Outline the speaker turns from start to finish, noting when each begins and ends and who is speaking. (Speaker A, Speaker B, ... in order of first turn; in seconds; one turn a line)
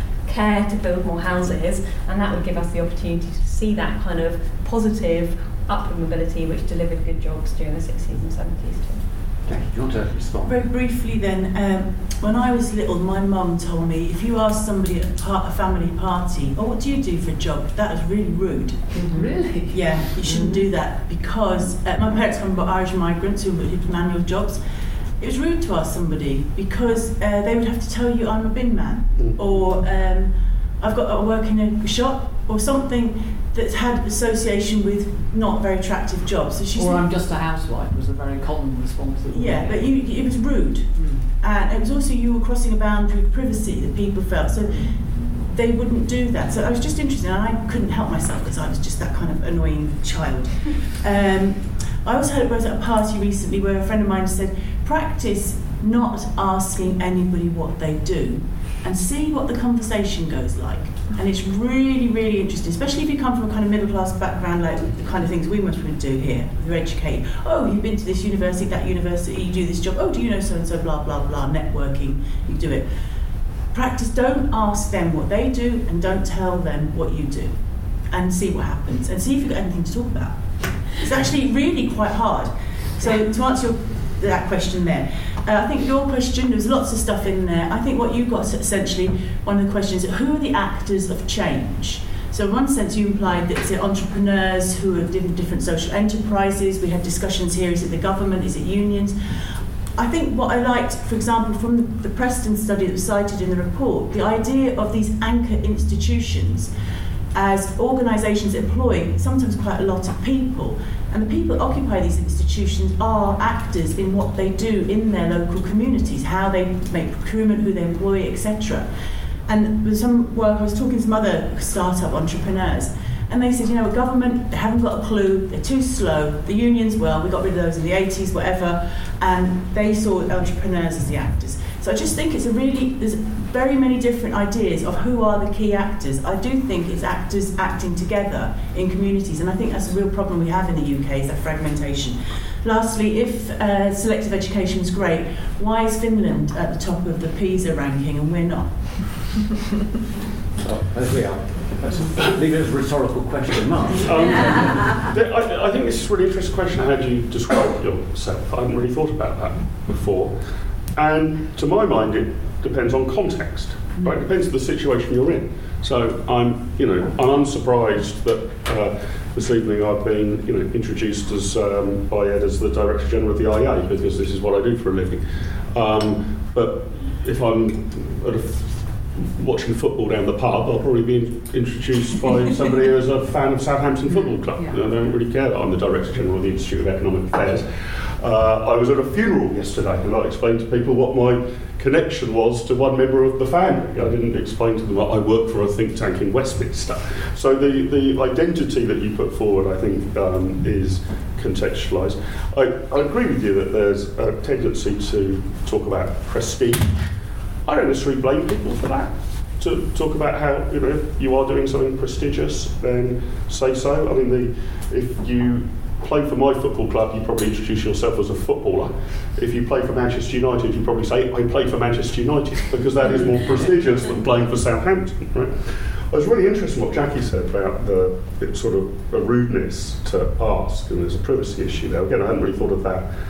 Speaker A: 0.2-9.0
Speaker B: 9.4-10.6
Speaker C: 10.4-19.0
Speaker D: 18.9-20.6
Speaker C: 19.7-24.6
Speaker C: 25.2-37.0
Speaker D: 36.7-40.0
Speaker C: 39.3-72.8
Speaker D: 40.9-41.3
Speaker C: 73.7-106.7
Speaker C: 107.3-118.9
Speaker C: 119.5-149.5
Speaker B: 150.6-154.6
Speaker E: 154.0-160.3
Speaker E: 160.9-187.7
Speaker E: 188.2-206.9
Speaker E: 207.7-233.1